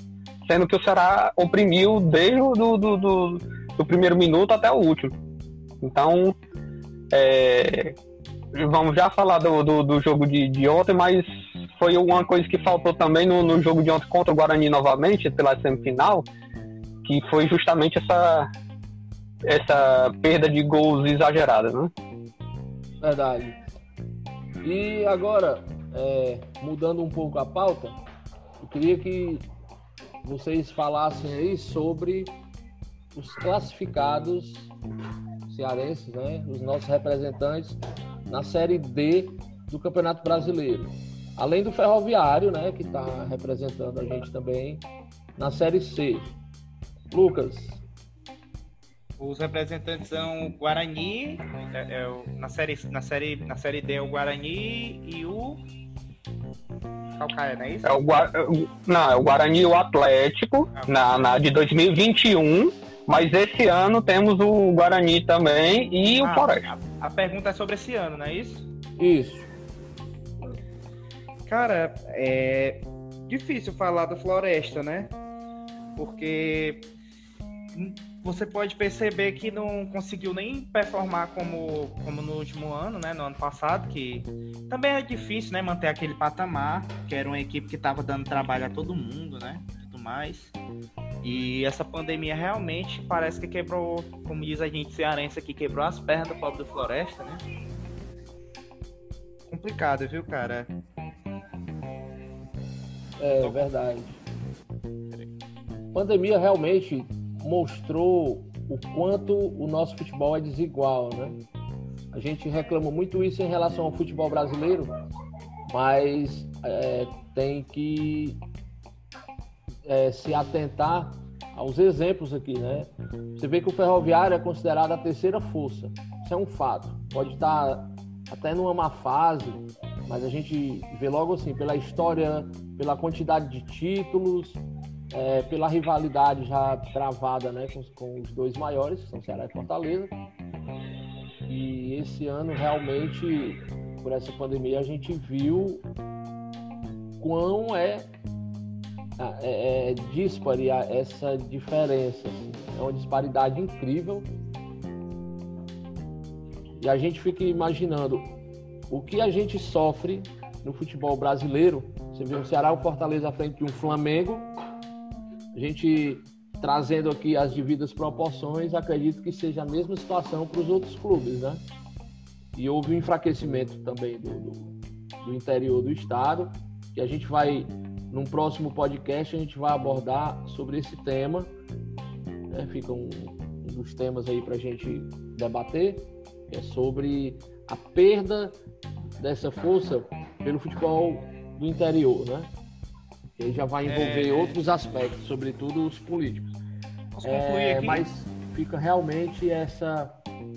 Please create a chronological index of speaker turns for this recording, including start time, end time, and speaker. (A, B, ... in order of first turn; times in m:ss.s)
0:00.4-0:05.2 A
0:05.8-0:06.4 A
0:07.1-0:07.9 A
0:08.5-0:16.3 A
0:17.0-0:18.5 A
0:19.4-0:21.9 A
0:23.0-0:23.6 B
0:24.6-0:28.0 B
0:28.6-0:29.4 B
0:30.2-0:32.4 B
0:33.1-0:34.7 B
0:35.4-0:44.8 B
0:45.4-0:46.3 B
0:47.1-0:47.8 B
0:49.2-0:55.6 C
0:57.2-0:57.9 C
0:57.8-1:06.6 A
1:00.7-1:01.3 C
1:06.2-1:08.6 C
1:09.0-1:09.5 B
1:11.5-1:15.1 C
1:16.0-1:16.9 C
1:17.7-1:30.5 C
1:31.2-1:37.4 C
1:39.5-1:40.7 C
1:43.2-1:44.2 B
1:43.4-1:43.7 C
1:45.9-1:51.4 B
1:52.1-1:54.9 B
1:55.7-1:58.4 B
1:59.9-2:20.1 B
2:21.5-2:25.8 B
2:27.2-2:28.1 B
2:29.2-2:34.3 B
2:36.8-2:38.3 B
2:38.9-2:44.5 B
2:45.5-2:51.6 B
2:52.5-3:01.5 B
3:02.5-3:08.6 B
3:09.2-3:12.5 B
3:13.4-3:16.5 B
3:13.9-3:14.6 C
3:17.1-3:18.0 C
3:17.2-3:20.2 B